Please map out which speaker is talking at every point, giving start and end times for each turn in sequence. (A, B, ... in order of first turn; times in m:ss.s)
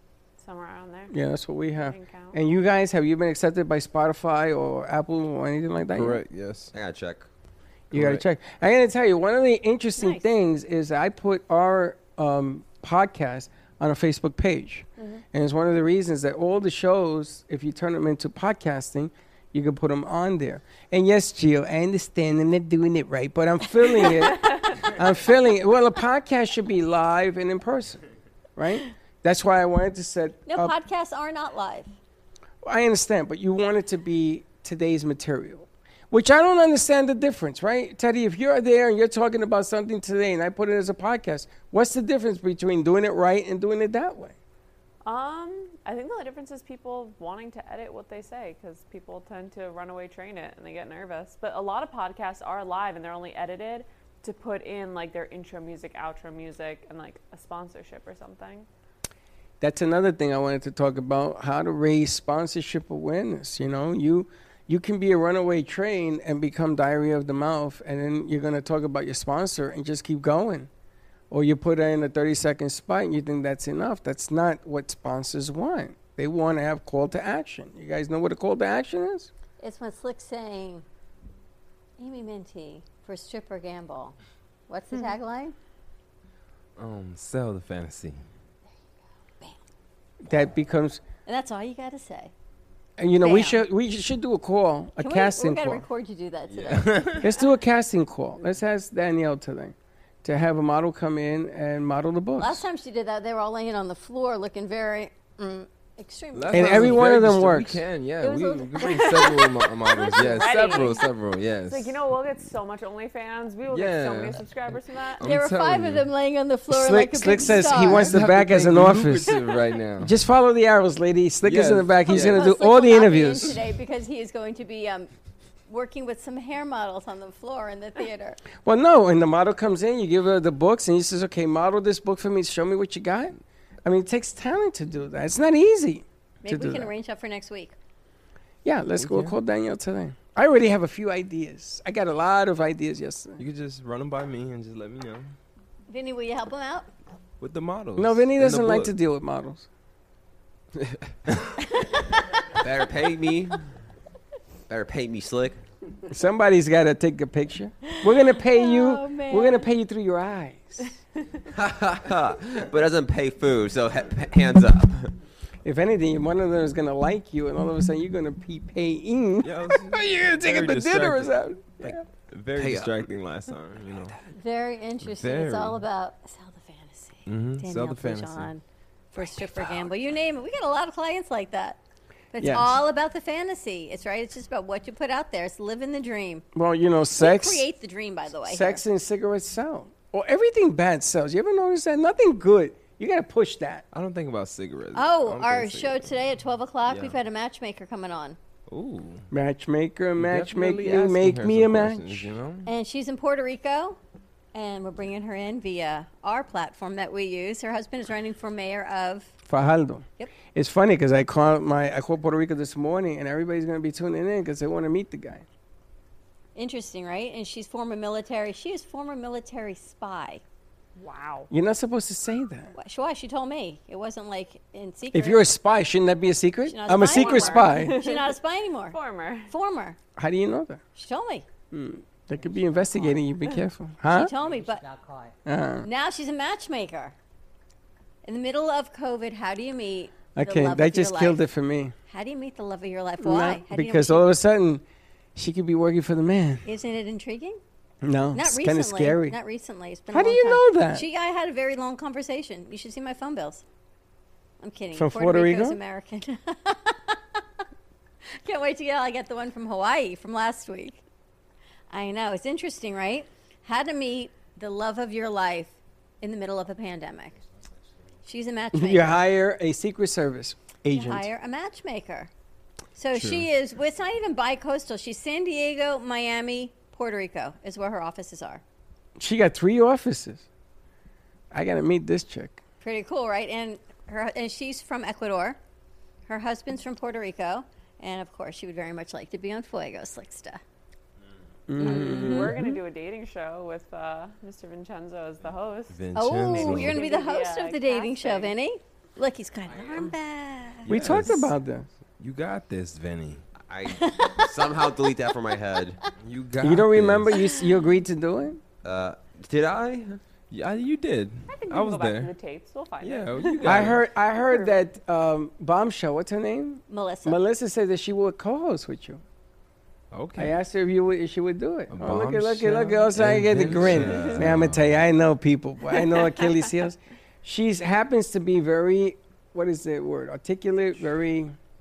0:00.4-0:01.2 A
0:01.1-0:06.2 B
0:01.8-0:02.4 A
0:05.9-0:06.7 C
0:06.7-0:07.3 D
0:07.9-0:28.0 B
0:07.9-0:08.2 C
0:28.6-0:30.7 B
0:30.5-0:31.9 E
0:32.6-0:44.4 B
0:45.0-0:58.7 A
0:59.6-1:10.7 B
1:11.3-1:19.3 B
1:19.6-1:20.8 E
1:22.0-1:24.2 E
1:24.7-1:25.6 E
1:26.8-1:28.2 C
1:30.2-1:31.0 B
1:31.3-1:32.3 E
1:33.0-1:35.8 B
1:33.2-1:33.6 E
1:35.0-1:37.2 E
1:36.5-1:37.4 C
1:37.2-1:42.6 B
1:42.4-1:47.0 E
1:46.3-1:52.0 C
1:46.5-1:47.8 B
1:48.2-1:50.4 E
1:48.8-1:51.1 A
1:51.7-1:55.2 A
1:53.7-1:56.1 C
1:55.2-1:58.2 E
1:56.7-1:59.4 B
1:57.4-2:00.2 C
2:00.0-2:03.6 B
2:01.4-2:02.5 C
2:02.1-2:05.1 E
2:05.7-2:08.4 E
2:08.6-2:16.9 B
2:16.4-2:17.8 E
2:18.6-2:23.4 B
2:19.0-2:19.4 C
2:23.4-2:25.3 C
2:25.9-2:26.9 E
2:27.4-2:28.9 C
2:28.0-2:29.7 B
2:31.8-2:32.2 E
2:32.5-2:33.7 D
2:34.7-2:35.6 D
2:36.1-2:40.9 B
2:37.8-2:39.7 E
2:41.5-2:45.1 D
2:45.6-2:52.0 B
2:49.4-2:51.4 C
2:51.9-2:54.2 C
2:52.6-2:53.1 D
2:54.3-3:01.8 E
2:55.0-2:55.8 C
2:57.3-2:58.5 C
3:02.3-3:06.4 E
3:02.4-3:02.8 B
3:06.6-3:07.7 B
3:07.2-3:08.8 E
3:08.4-3:13.8 B
3:13.9-3:16.1 C
3:14.9-3:18.4 E
3:16.9-3:17.2 C
3:18.7-3:19.3 C
3:19.3-3:22.3 B
3:20.2-3:22.7 C
3:22.6-3:24.0 E
3:24.5-3:29.3 E
3:29.5-3:35.4 B
3:36.6-3:40.4 E
3:41.0-3:41.5 A
3:41.5-3:42.7 B
3:42.8-3:45.5 E
3:45.1-3:48.0 B
3:46.7-3:49.0 E
3:46.9-3:48.4 A
3:48.9-3:49.5 A
3:49.5-3:50.0 E
3:50.2-3:50.8 B
3:51.0-3:51.5 E
3:51.7-3:54.3 B
3:52.3-3:53.3 F
3:54.1-3:54.8 E
3:54.3-3:55.4 F
3:55.5-3:55.9 B
3:55.8-3:57.2 E
3:58.2-4:01.4 E
4:00.4-4:01.9 B
4:02.1-4:04.3 E
4:03.2-4:04.8 B
4:05.4-4:06.6 B
4:06.6-4:07.6 E
4:08.0-4:09.4 B
4:08.3-4:13.6 E
4:10.1-4:11.0 B
4:14.6-4:17.4 E
4:14.9-4:15.8 B
4:18.3-4:21.0 E
4:21.9-4:27.4 E
4:27.3-4:28.2 F
4:28.2-4:29.2 E
4:28.7-4:31.3 B
4:30.9-4:32.3 E
4:33.0-4:38.6 E
4:33.1-4:33.5 C
4:39.2-4:40.5 B
4:41.5-4:42.6 B
4:42.8-4:45.6 E
4:46.3-4:50.6 E
4:51.7-4:52.7 B
4:51.8-4:52.6 E
4:51.8-4:58.5 A
4:55.9-4:57.0 C
4:56.2-5:01.4 E
5:00.9-5:01.5 C
5:00.9-5:01.9 B
5:02.2-5:03.4 C
5:03.6-5:06.0 D
5:03.9-5:04.5 E
5:06.2-5:07.4 C
5:06.6-5:08.6 B
5:07.4-5:07.8 E
5:08.8-5:10.2 D
5:10.5-5:12.3 C
5:11.5-5:14.8 A
5:13.0-5:14.0 C
5:13.6-5:19.2 B
5:16.9-5:17.4 E
5:20.1-5:20.6 C
5:20.4-5:31.6 B
5:21.9-5:25.0 C